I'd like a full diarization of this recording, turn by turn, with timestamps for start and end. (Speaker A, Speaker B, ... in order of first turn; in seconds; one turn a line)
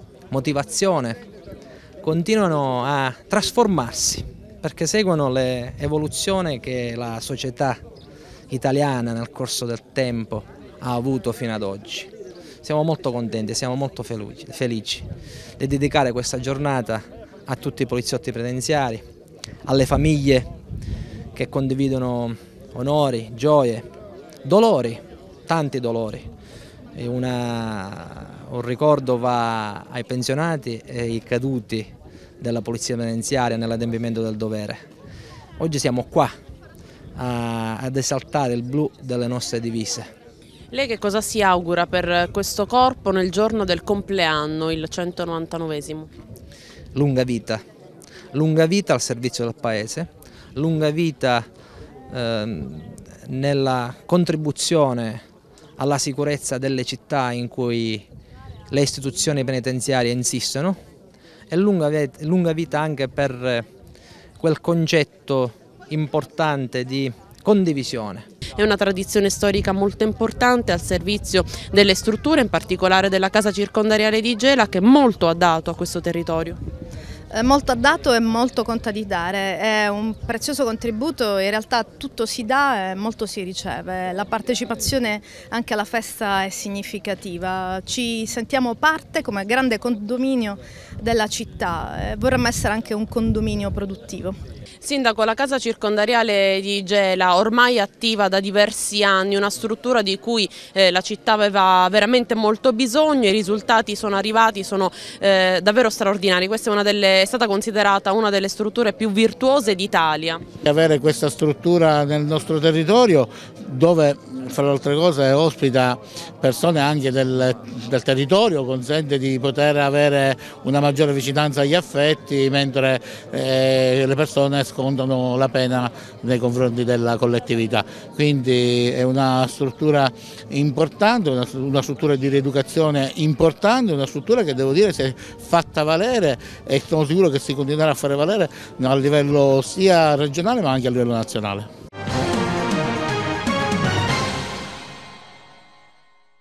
Speaker A: 0.3-1.2
Speaker A: 2.0-7.8
Speaker A: 8.5-12.1
Speaker A: 12.6-19.0
Speaker A: 19.6-20.5
Speaker A: 21.3-23.9
Speaker A: 24.4-26.3
Speaker A: 26.9-34.8
Speaker A: 35.6-36.3
Speaker A: 37.1-40.1
Speaker B: 40.7-46.1
Speaker A: 46.9-47.6
Speaker A: 48.3-51.5
Speaker A: 52.1-55.2
Speaker A: 55.8-58.0
Speaker A: 58.7-60.8
Speaker A: 61.5-63.7
Speaker A: 64.4-68.3
Speaker B: 68.5-76.6
Speaker C: 77.3-94.4
Speaker B: 94.8-110.4
Speaker D: 110.6-141.7